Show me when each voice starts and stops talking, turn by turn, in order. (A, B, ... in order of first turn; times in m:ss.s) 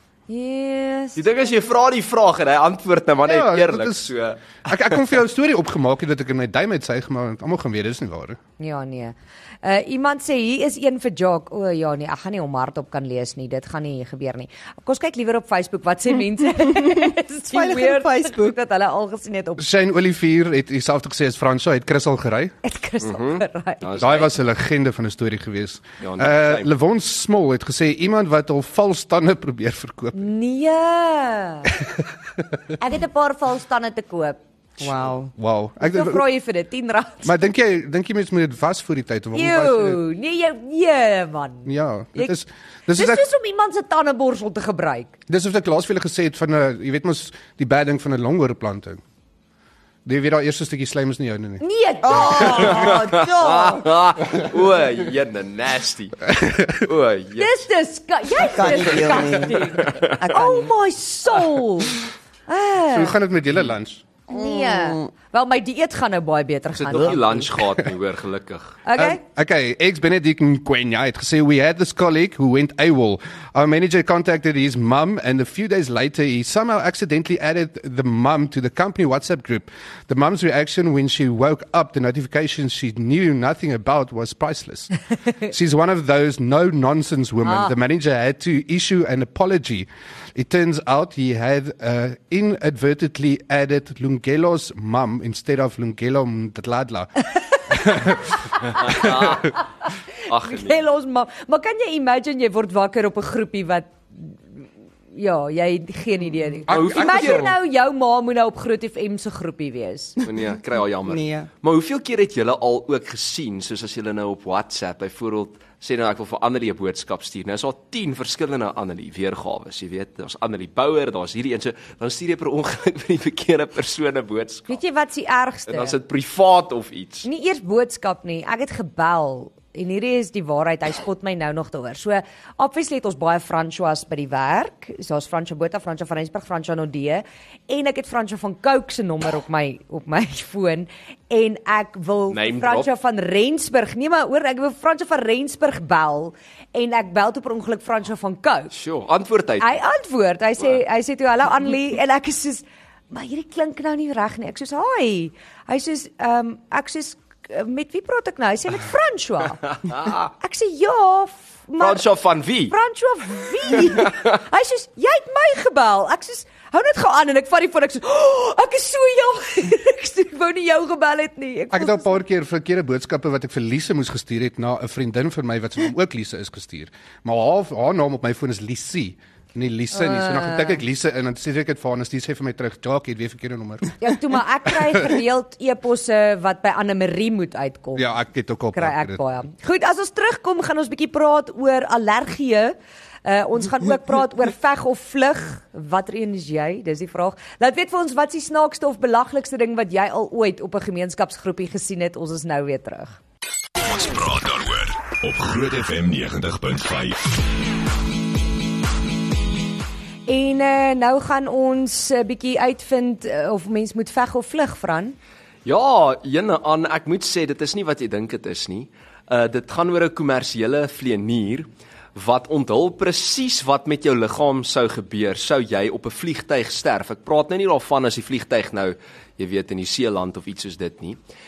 0:00.3-0:01.2 A
0:01.2-0:05.0 B
0:03.3-0:04.1 C
0:04.6-0:08.4 C
0:08.6-0:19.6 A
0:16.6-0:18.6 D
0:19.6-0:22.5 C
0:22.6-0:23.9 A
0:23.0-0:24.3 B
0:24.0-0:30.2 C
0:26.0-0:26.7 B
0:30.1-0:31.7 A
0:31.7-0:32.4 C
0:32.8-0:34.4 A
0:34.8-0:35.3 D
0:35.4-0:36.2 C
0:35.8-0:37.3 A
0:37.2-0:40.0 C
0:39.3-0:42.3 A
0:41.6-0:43.2 C
0:42.9-0:45.1 A
0:45.3-0:49.0 C
0:50.0-0:51.6 C
0:51.6-0:53.3 A
0:52.0-0:53.9 D
0:52.3-0:57.5 B
0:56.3-0:56.7 C
0:57.4-1:03.2 A
0:58.4-1:00.7 D
0:59.8-1:00.4 B
1:02.9-1:04.0 C
1:04.3-1:07.5 A
1:04.3-1:05.1 D
1:06.7-1:08.8 B
1:08.8-1:09.2 A
1:09.0-1:39.5 C
1:27.4-1:27.7 A
1:38.6-1:39.6 A
1:38.7-1:39.6 B
1:40.2-1:40.8 B
1:40.4-1:50.2 A
1:46.7-1:47.5 B
1:46.7-1:47.5 C
1:50.2-2:04.8 B
1:51.0-1:51.5 D
2:04.7-2:05.9 A
2:05.7-2:07.3 B
2:07.2-2:28.7 A
2:22.3-2:22.9 B
2:28.7-2:29.7 B
2:29.6-2:39.6 A
2:39.7-2:40.3 B
2:40.4-2:42.0 A
2:41.8-2:42.7 B
2:42.7-2:52.2 A
2:43.8-2:44.2 B
2:51.7-3:04.0 C
2:59.9-3:00.8 A
3:04.0-3:08.0 A
3:08.0-3:09.2 C
3:08.7-3:23.2 A
3:23.8-3:27.2 E
3:25.1-3:27.0 B
3:30.3-3:35.2 A
3:35.6-3:51.2 B